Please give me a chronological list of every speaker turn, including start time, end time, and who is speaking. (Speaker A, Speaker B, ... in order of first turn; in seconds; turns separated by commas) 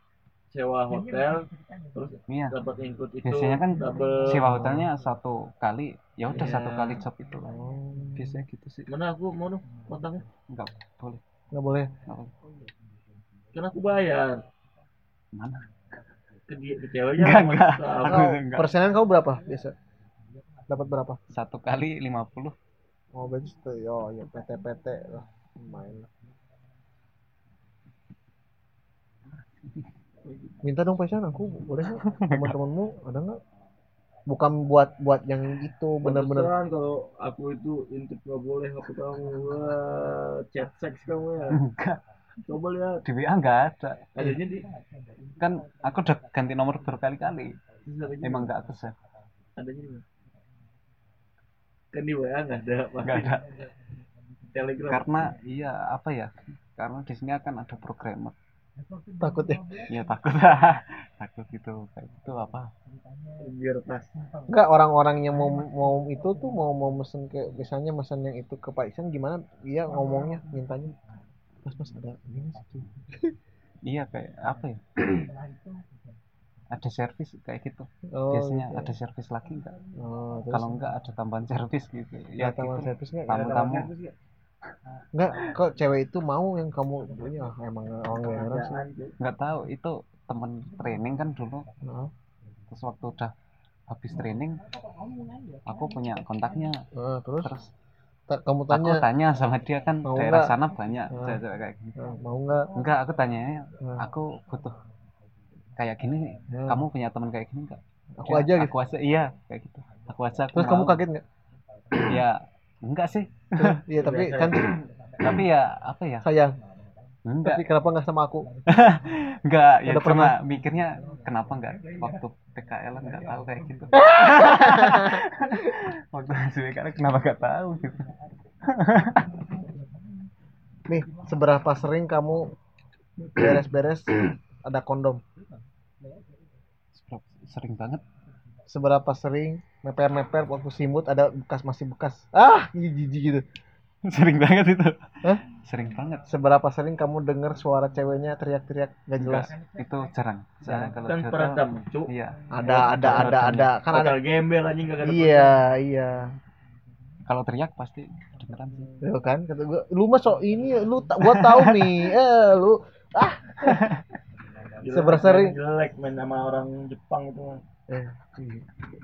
Speaker A: 0.5-4.4, Speaker B: 2.3-2.5, Speaker B: 3.2-7.5, Speaker C: 4.4-4.9, Speaker A: 6.3-7.0, Speaker C: 7.4-8.4, Speaker B: 8.2-8.9, Speaker A: 8.9-10.2, Speaker B: 10.5-11.2, Speaker C: 11.5-11.9, Speaker B: 12.1-12.3, Speaker A: 13.5-14.4, Speaker B: 15.3-15.7, Speaker A: 16.5-18.3, Speaker B: 17.2-18.7, Speaker C: 18.1-19.7, Speaker C: 20.7-21.2, Speaker B: 21.3-22.5, Speaker C: 23.1-26.1, Speaker A: 30.2-30.5, Speaker C: 30.6-33.4, Speaker B: 32.0-32.5, Speaker C: 34.3-36.5, Speaker A: 36.0-41.6, Speaker B: 41.5-42.0, Speaker A: 42.5-43.0, Speaker B: 43.0-44.1, Speaker A: 44.1-44.7, Speaker B: 45.4-47.5, Speaker A: 47.9-48.5, Speaker B: 48.2-49.0, Speaker A: 49.6-50.0, Speaker A: 51.9-53.4, Speaker B: 53.0-53.5, Speaker A: 54.5-55.1, Speaker B: 54.9-58.4, Speaker C: 59.2-59.9, Speaker B: 59.9-62.7, Speaker A: 63.4-64.1, Speaker C: 64.5-70.9, Speaker C: 71.6-73.3, Speaker B: 73.8-75.3, Speaker B: 76.7-79.8, Speaker C: 78.1-78.9, Speaker C: 80.0-80.8, Speaker B: 80.5-83.9, Speaker C: 82.4-83.7, Speaker A: 83.3-84.1, Speaker C: 85.1-88.8, Speaker A: 88.2-89.2, Speaker B: 89.2-91.7, Speaker C: 91.8-92.1, Speaker B: 92.7-93.3, Speaker B: 93.9-94.6, Speaker B: 95.7-96.8, Speaker C: 96.9-97.5, Speaker B: 97.4-97.7, Speaker C: 98.3-99.0, Speaker B: 98.7-102.0, Speaker C: 100.0-100.5, Speaker C: 101.1-101.4, Speaker C: 102.0-102.7, Speaker B: 102.8-104.8, Speaker B: 105.8-111.0, Speaker C: 106.5-106.8, Speaker C: 108.2-108.7, Speaker C: 110.5-111.2, Speaker B: 112.0-113.8, Speaker C: 113.6-114.7, Speaker A: 113.9-114.8, Speaker B: 115.2-116.3, Speaker C: 116.2-116.6, Speaker B: 117.3-117.7, Speaker C: 117.4-118.5, Speaker B: 118.7-128.1, Speaker C: 119.9-120.4, Speaker C: 123.9-125.2, Speaker B: 128.7-129.3, Speaker C: 130.9-132.5, Speaker C: 133.4-135.2, Speaker B: 136.9-138.0, Speaker C: 138.7-143.4, Speaker B: 144.1-145.0, Speaker B: 145.5-146.2, Speaker C: 146.3-149.5, Speaker B: 149.2-153.7, Speaker C: 150.7-150.9, Speaker A: 151.1-152.1, Speaker C: 152.5-154.2, Speaker A: 152.7-155.6, Speaker C: 155.0-156.3, Speaker B: 157.3-158.9, Speaker C: 159.0-163.8, Speaker B: 161.2-162.0, Speaker B: 163.7-163.9, Speaker A: 164.8-167.6, Speaker C: 164.9-165.6, Speaker C: 167.9-168.7